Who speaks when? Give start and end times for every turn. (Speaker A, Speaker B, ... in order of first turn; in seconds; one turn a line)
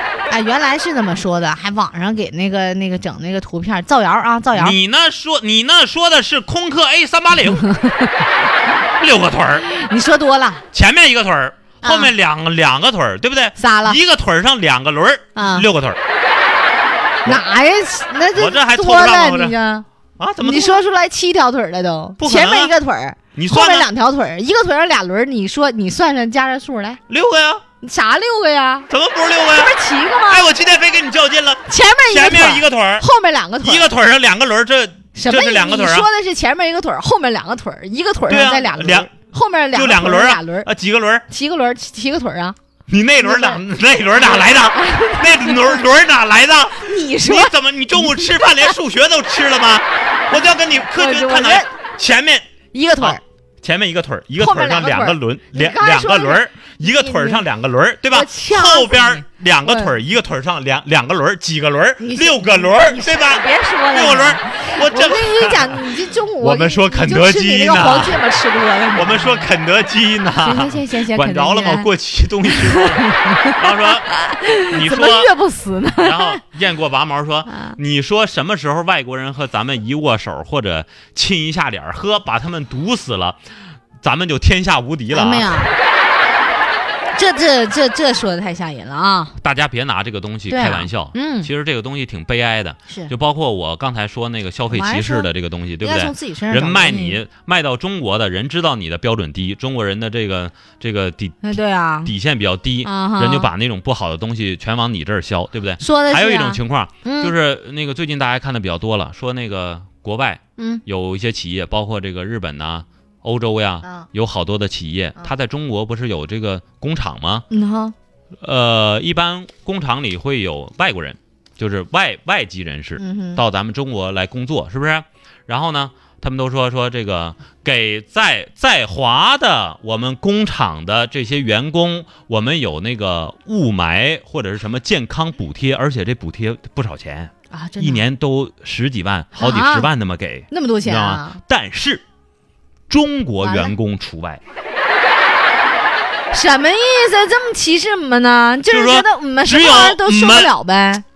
Speaker A: 0.3-4.8
Speaker B: 4.5-7.8
Speaker A: 7.6-8.1
Speaker B: 9.0-9.7
Speaker A: 9.6-10.6
Speaker B: 10.7-16.0
Speaker A: 11.8-12.1
Speaker A: 13.6-14.0
Speaker A: 15.3-15.7
Speaker A: 17.2-19.9
Speaker B: 18.3-19.5
Speaker B: 20.2-20.8
Speaker A: 20.4-27.0
Speaker B: 22.2-22.7
Speaker B: 23.3-23.9
Speaker B: 27.1-27.6
Speaker A: 27.8-28.9
Speaker B: 28.9-29.7
Speaker A: 29.5-30.5
Speaker B: 30.3-33.0
Speaker A: 31.7-33.9
Speaker B: 33.6-36.1
Speaker A: 35.1-40.7
Speaker B: 38.3-39.1
Speaker B: 39.7-41.2
Speaker A: 41.3-42.6
Speaker B: 42.9-52.5
Speaker A: 43.2-43.6
Speaker A: 44.1-45.8
Speaker A: 46.8-48.7
Speaker A: 50.9-51.7
Speaker A: 52.7-53.2
Speaker B: 53.0-65.8
Speaker A: 54.4-57.4
Speaker A: 58.1-59.9
Speaker A: 62.0-69.4
Speaker B: 66.4-68.2
Speaker B: 68.9-75.3
Speaker A: 70.4-71.9
Speaker A: 72.5-76.4
Speaker B: 76.0-83.4
Speaker B: 84.0-85.7
Speaker A: 85.1-85.8
Speaker A: 87.1-89.4
Speaker B: 89.4-101.5
Speaker A: 90.5-91.5
Speaker A: 94.7-97.2
Speaker A: 101.4-102.1
Speaker B: 102.0-117.5
Speaker A: 102.8-103.5
Speaker A: 105.8-107.3
Speaker A: 110.6-110.8
Speaker A: 117.5-117.9
Speaker B: 118.4-142.0
Speaker A: 123.0-123.4
Speaker A: 137.5-138.0
Speaker A: 139.3-139.9
Speaker A: 140.5-141.4
Speaker B: 142.9-144.4
Speaker A: 143.4-143.7
Speaker A: 146.3-151.0
Speaker B: 148.7-150.5